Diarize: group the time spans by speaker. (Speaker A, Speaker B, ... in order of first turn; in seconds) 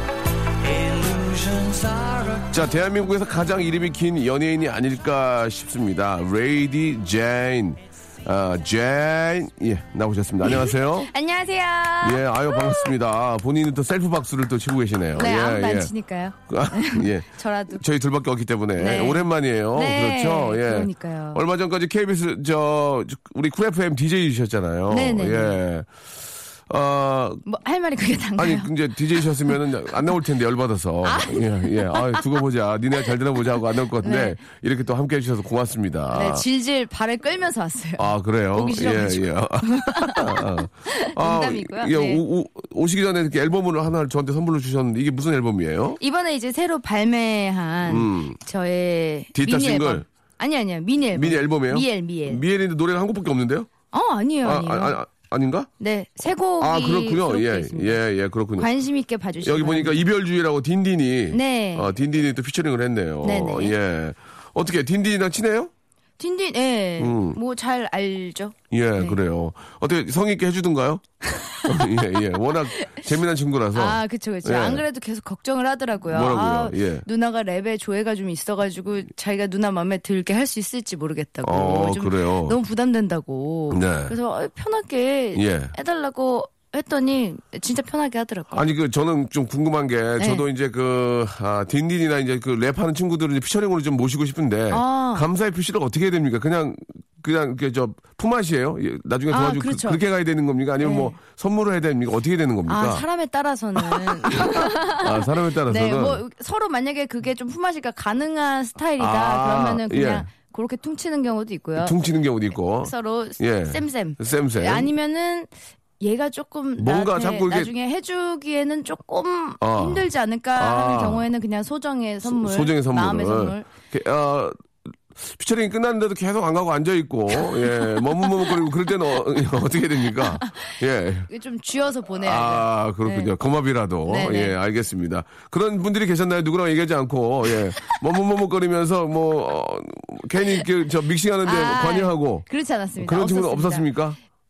Speaker A: 0.6-2.5
Speaker B: 2.5-11.1, 12.0-15.9, 16.5-25.9, 26.7-27.4, 28.4-36.4, 38.0-46.0, 47.9-48.4, 49.3-50.0, 51.1-53.7, 54.4-55.7, 56.6-58.7, 59.4-65.7, 67.0-67.4, 68.7-71.0, 71.6-74.8, 76.1-77.0, 81.4-82.6, 83.7-84.2, 85.3-85.7, 88.5-103.0, 103.8-106.2, 109.0-110.3, 111.8-114.9, 116.8-117.7, 119.6-121.3, 122.2-124.5, 125.1-131.3, 132.2-142.5, 143.0-144.2
Speaker C: 10.4-12.9, 15.2-17.8, 18.8-21.4, 24.9-25.6, 27.4-29.5, 31.0-32.3, 34.0-34.4, 36.1-42.2, 46.0-52.4, 53.9-55.0, 55.8-58.0, 58.6-60.1, 61.3-61.9, 63.2-63.7, 66.2-69.2, 71.3-73.0, 73.7-88.6, 90.2-90.4, 94.7-95.3, 99.3-100.0, 100.8-101.2, 102.7-112.0, 112.8-123.7, 127.4-128.7, 130.2-130.7, 131.3-133.3, 134.1-134.5, 141.4-143.9